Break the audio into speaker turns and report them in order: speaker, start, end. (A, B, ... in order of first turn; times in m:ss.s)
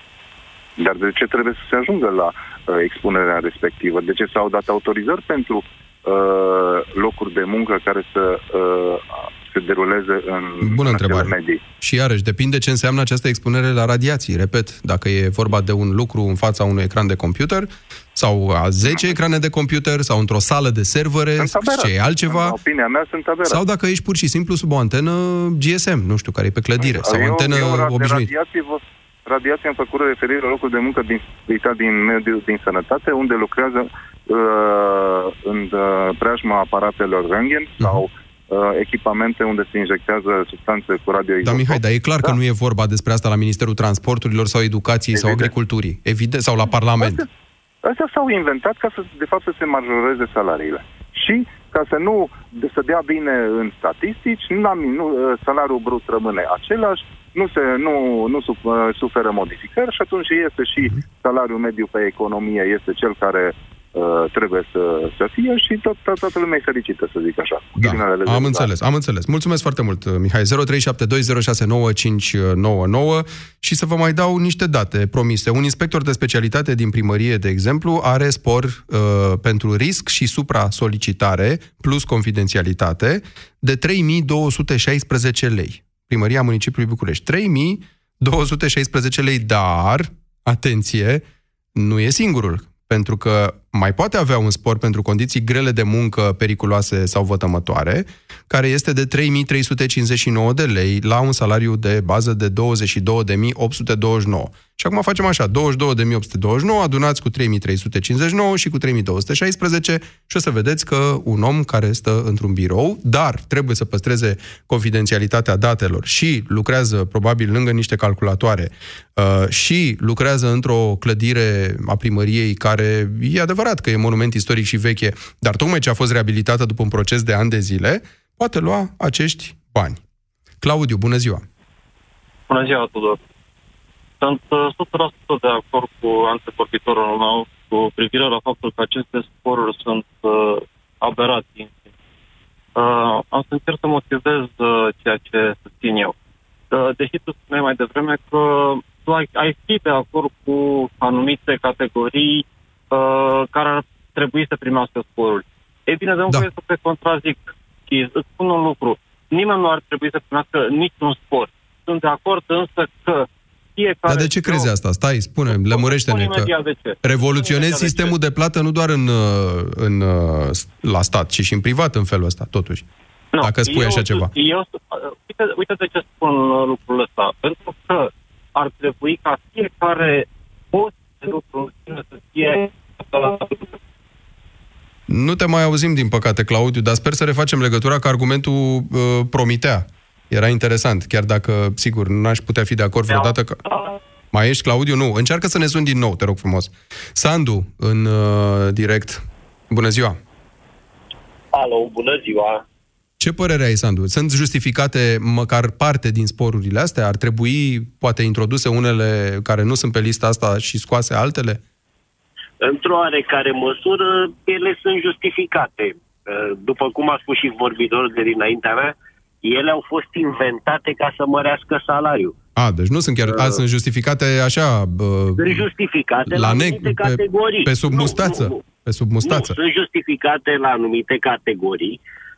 0:00.8-0:11.6 A
0:10.6-0:22.6 B
0:18.8-0:19.1 A
0:21.4-0:23.6 A
0:23.4-0:28.3 B
0:26.8-0:42.4 A
0:41.4-0:47.2 B
0:45.1-0:45.5 A
0:47.0-0:47.3 A
0:47.8-1:08.7 A
1:07.8-1:31.2 B
1:31.8-2:10.0 B
2:10.6-2:11.4 B
2:12.5-2:13.2 C
2:14.2-2:21.9 C
2:22.8-2:26.1 C
2:26.7-2:44.7 C
2:44.1-2:46.5 B
2:45.5-2:48.1 C
2:47.0-2:52.8 B
2:53.3-3:03.7 C
2:53.4-2:54.3 B
3:05.1-3:13.6 B
3:14.3-3:20.2 B
3:21.5-3:22.6 D
3:23.2-3:31.6 B
3:32.6-3:42.3 D
3:42.6-3:45.7 B
3:45.4-3:48.6 D
3:46.3-3:49.6 B
3:49.2-3:52.0 D